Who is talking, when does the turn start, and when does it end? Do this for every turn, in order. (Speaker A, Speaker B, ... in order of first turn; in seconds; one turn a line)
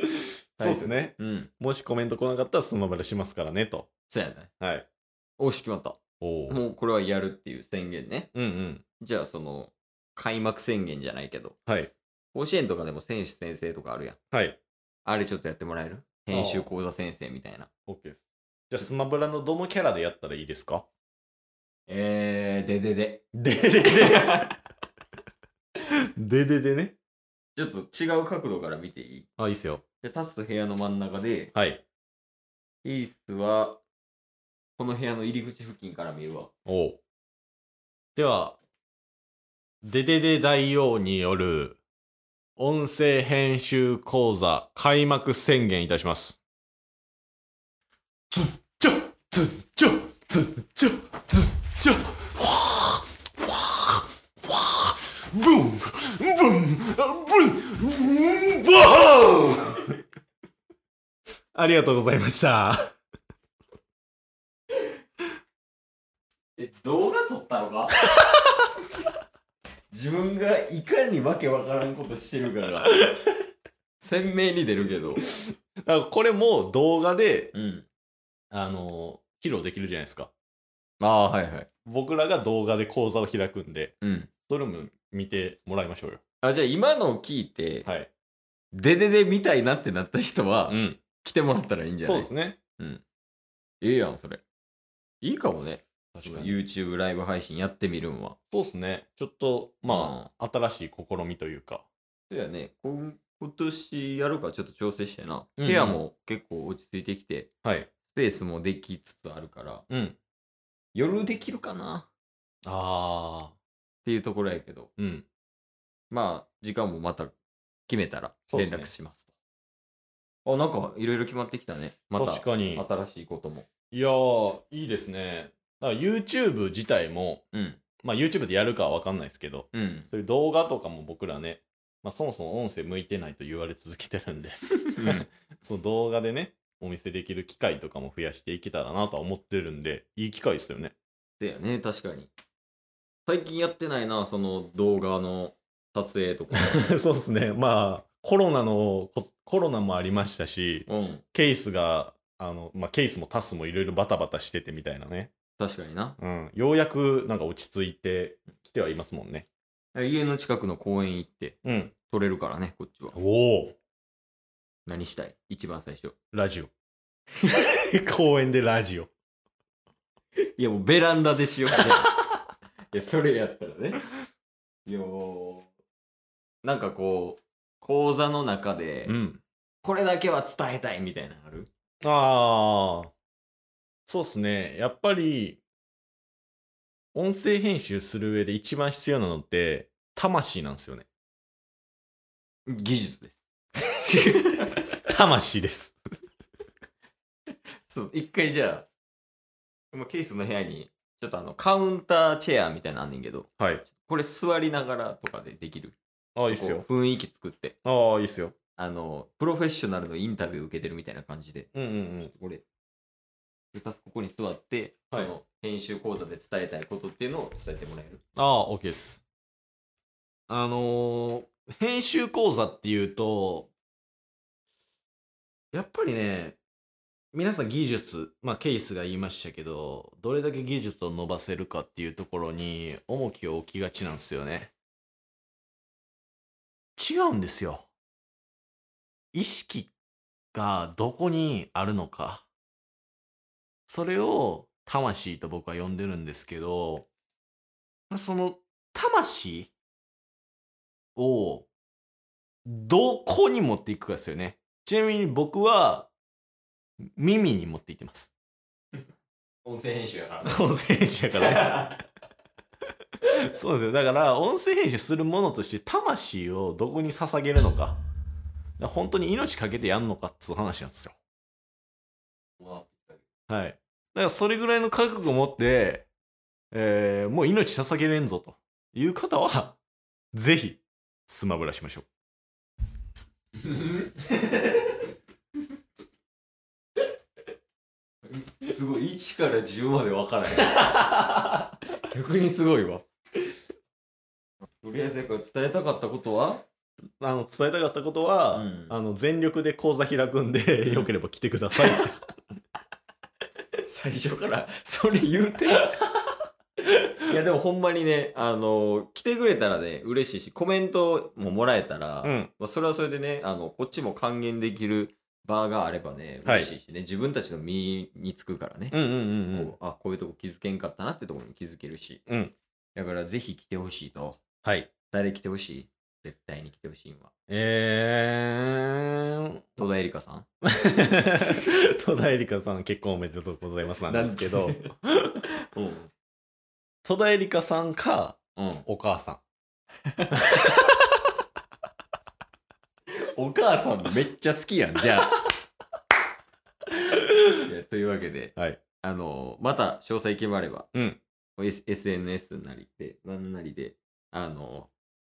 Speaker A: 0.6-3.9
Speaker B: 0.6-1.5
Speaker B: 4.1-4.5
Speaker A: 4.6-4.8
Speaker B: 5.4-8.3
Speaker A: 6.2-6.6
Speaker A: 8.3-8.8
Speaker B: 9.0-11.6
Speaker A: 11.7-11.9
Speaker B: 12.3-14.2
Speaker A: 14.3-14.6
Speaker B: 15.0-17.7
Speaker A: 16.3-16.7
Speaker A: 17.9-20.9
Speaker B: 21.9-24.5
Speaker A: 23.3-24.5
Speaker A: 26.2-26.9
Speaker B: 27.5-29.3
Speaker A: 29.4-29.8
Speaker B: 30.0-31.5
Speaker A: 31.5-31.8
Speaker B: 32.8-33.8
Speaker B: 34.8-36.5
Speaker A: 36.6-37.0
Speaker A: 38.1-38.6
Speaker A: 39.8-41.8
Speaker A: 42.6-46.4
Speaker A: 48.3-59.9
Speaker A: 61.5-62.9
Speaker B: 66.6-68.1
Speaker B: 69.9-73.0
Speaker B: 74.0-75.2
Speaker A: 75.2-77.5
Speaker B: 77.5-77.9
Speaker A: 78.5-80.3
Speaker B: 81.0-81.7
Speaker A: 81.8-83.9
Speaker B: 84.0-84.3
Speaker A: 84.5-86.2
Speaker B: 86.4-87.9
Speaker B: 88.7-93.0
Speaker A: 90.7-91.0
Speaker A: 92.0-92.6
Speaker B: 93.8-94.4
Speaker B: 95.2-98.4
Speaker A: 96.1-96.5
Speaker A: 98.5-101.8
Speaker B: 99.8-100.3
Speaker B: 102.3-107.5
Speaker A: 105.6-106.0
Speaker A: 107.6-107.9
Speaker B: 108.1-109.9
Speaker A: 109.9-110.2
Speaker B: 110.9-112.1
Speaker A: 112.6-113.5
Speaker B: 114.0-114.9
Speaker A: 115.0-115.2
Speaker B: 116.1-117.3
Speaker B: 117.9-119.3
Speaker A: 118.5-118.9
Speaker B: 120.4-123.7
Speaker A: 122.2-122.8
Speaker A: 123.9-127.4
Speaker B: 127.5-127.8
Speaker A: 128.0-140.9
Speaker B: 129.7-130.1
Speaker B: 134.9-135.2
Speaker B: 141.4-142.3
Speaker B: 143.3-146.9
Speaker A: 146.5-155.3
Speaker B: 150.9-151.2
Speaker B: 155.6-156.2
Speaker A: 156.2-159.4
Speaker B: 159.9-163.2
Speaker A: 161.6-161.9
Speaker A: 163.1-163.7
Speaker B: 164.8-166.2
Speaker A: 166.3-166.7
Speaker A: 167.9-169.1
Speaker B: 170.6-172.1
Speaker B: 172.9-174.0
Speaker B: 174.8-175.7
Speaker B: 176.6-179.2
Speaker A: 179.1-179.4
Speaker B: 179.8-181.7
Speaker A: 182.0-183.1
Speaker A: 184.1-185.6
Speaker A: 187.1-191.1
Speaker B: 192.7-194.9
Speaker A: 195.1-195.9
Speaker B: 197.8-198.9
Speaker B: 199.9-207.8
Speaker A: 203.6-203.8
Speaker A: 206.3-206.8
Speaker A: 207.8-208.5
Speaker B: 208.8-212.6
Speaker A: 211.7-212.3
Speaker B: 213.7-218.2
Speaker A: 218.3-219.2
Speaker A: 220.5-223.7
Speaker A: 225.7-226.6
Speaker A: 227.3-234.7
Speaker A: 236.9-237.9
Speaker A: 239.3-239.9
Speaker A: 240.5-242.5
Speaker A: 243.9-247.1
Speaker A: 248.1-249.7
Speaker A: 251.2-251.7
Speaker A: 252.7-256.1
Speaker A: 257.1-258.3
Speaker B: 259.6-260.6
Speaker A: 260.4-261.8
Speaker B: 261.4-262.0
Speaker A: 263.5-268.0
Speaker A: 268.8-271.2
Speaker B: 272.6-273.2
Speaker A: 273.5-276.1
Speaker A: 276.7-279.8
Speaker A: 280.3-282.1
Speaker B: 283.6-284.3
Speaker B: 288.3-291.2
Speaker B: 292.0-293.1
Speaker B: 294.8-296.6
Speaker A: 297.2-302.2
Speaker B: 298.5-298.9
Speaker B: 303.8-305.9
Speaker B: 307.2-322.2
Speaker A: 312.2-312.5
Speaker A: 316.4-316.7
Speaker A: 318.9-319.7
Speaker A: 322.3-322.5
Speaker B: 322.9-324.4
Speaker A: 324.6-324.9
Speaker B: 325.1-327.3
Speaker A: 327.5-329.8
Speaker B: 329.8-330.4
Speaker A: 330.6-335.3
Speaker B: 334.1-334.9
Speaker B: 335.7-336.1
Speaker A: 337.0-339.4
Speaker B: 338.6-338.9
Speaker A: 340.3-341.0
Speaker B: 343.3-345.4
Speaker B: 347.1-350.9
Speaker A: 350.9-351.2
Speaker B: 351.6-354.9